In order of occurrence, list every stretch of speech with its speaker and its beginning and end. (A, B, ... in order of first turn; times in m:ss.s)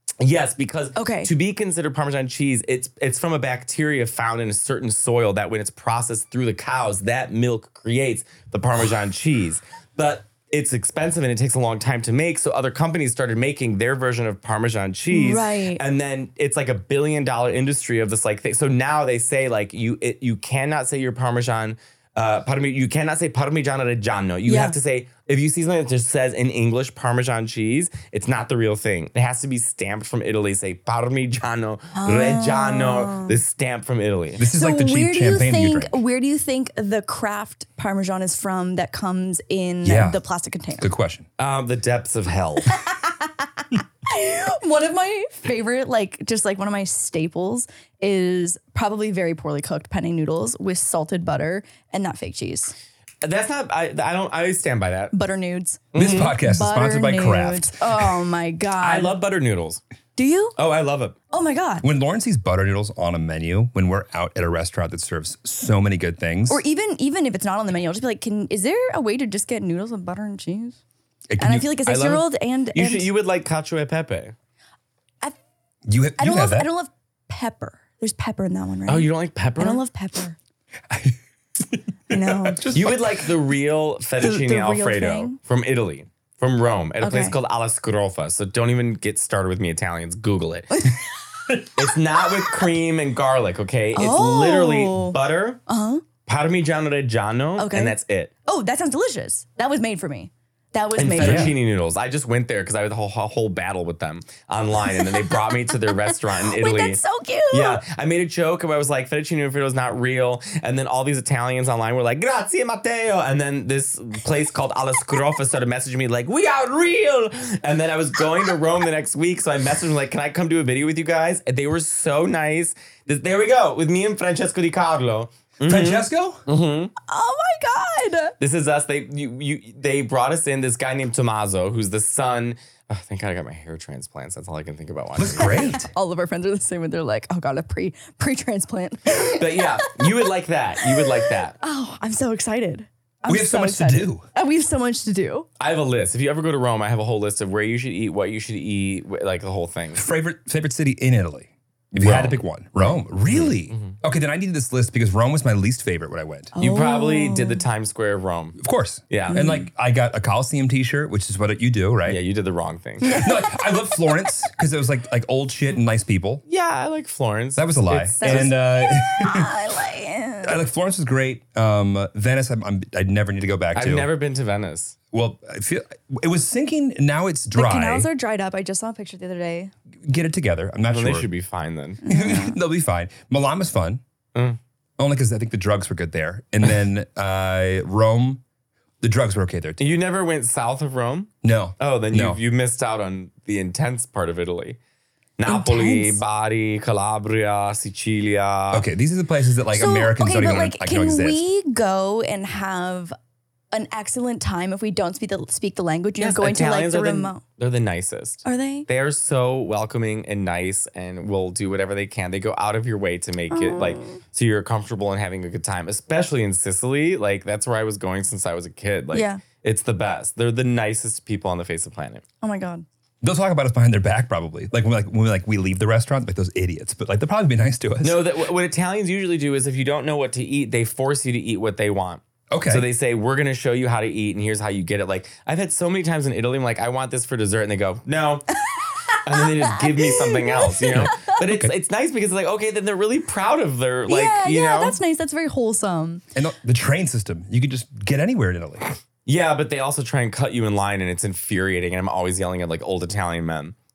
0:00.2-0:34.4 A
0:00.9-0:01.3 B
0:15.1-0:15.8 B
0:24.5-0:24.8 B
0:31.9-0:33.4 B
0:34.4-0:36.0 C
0:34.5-0:40.8 B
0:39.8-0:40.2 C
0:40.8-0:41.2 C
0:41.4-0:42.7 A
0:42.7-0:43.4 B
0:44.0-0:52.7 B
0:53.2-0:55.1 A
0:55.1-0:59.1 B
0:55.9-0:56.3 A
0:55.9-0:58.1 C
0:58.8-0:59.8 A
1:00.2-1:00.6 B
1:00.6-1:01.1 A
1:01.3-1:01.8 B
1:01.8-1:06.6 C
1:06.5-1:10.8 B
1:11.3-1:11.7 C
1:11.4-1:13.1 B
1:11.8-1:14.3 A
1:15.8-1:16.7 C
1:16.2-1:20.4 B
1:18.9-1:19.8 A
1:20.9-1:23.3 C
1:22.1-1:22.7 B
1:22.7-1:30.9 A
1:24.2-1:25.4 B
1:27.0-1:27.4 B
1:31.8-1:35.6 A
1:34.0-1:36.0 B
1:36.2-1:38.3 A
1:37.6-1:41.5 B
1:41.0-2:06.9 A
1:41.2-1:41.5 C
1:44.8-1:47.8 B
2:05.6-2:06.4 C
2:07.1-2:08.3 B
2:08.4-2:15.7 A
2:15.2-2:15.9 C
2:15.4-2:20.1 B
2:19.2-2:21.6 A
2:20.8-2:25.4 B
2:23.3-2:24.2 C
2:25.6-2:30.1 A
2:29.9-2:36.5 C
2:31.9-2:34.0 A
2:36.5-2:37.6 B
2:36.6-2:38.6 A
2:38.6-2:42.2 C
2:39.1-2:39.5 A
2:39.3-2:39.7 B
2:42.0-2:43.2 A
2:43.1-2:46.4 C
2:46.4-2:48.5 A
2:47.5-2:49.6 C
2:48.2-2:50.6 B
2:50.4-2:54.1 C
2:53.7-2:55.0 A
2:55.1-2:58.1 C
2:57.5-2:59.7 B
3:00.0-3:01.3 C
3:00.9-3:02.0 A
3:02.0-3:02.6 B
3:02.0-3:04.0 C
3:05.0-3:08.4 C
3:09.0-3:09.9 C
3:09.8-3:14.8 A
3:11.4-3:12.4 C
3:15.4-3:18.8 A
3:15.4-3:16.2 B
3:18.7-3:21.4 C
3:19.7-3:23.1 B
3:23.7-3:27.4 B
3:26.2-3:42.2 A
3:28.4-3:28.8 B
3:33.5-3:34.2 B
3:39.1-3:39.4 B
3:42.4-3:42.8 B
3:43.2-3:48.3 C
3:48.0-3:58.5 A
3:52.5-3:52.9 C
3:59.1-4:01.3 B
3:59.2-4:05.0 A
4:00.9-4:01.7 C
4:04.1-4:06.2 B
4:06.3-4:08.9 C
4:09.2-4:13.7 A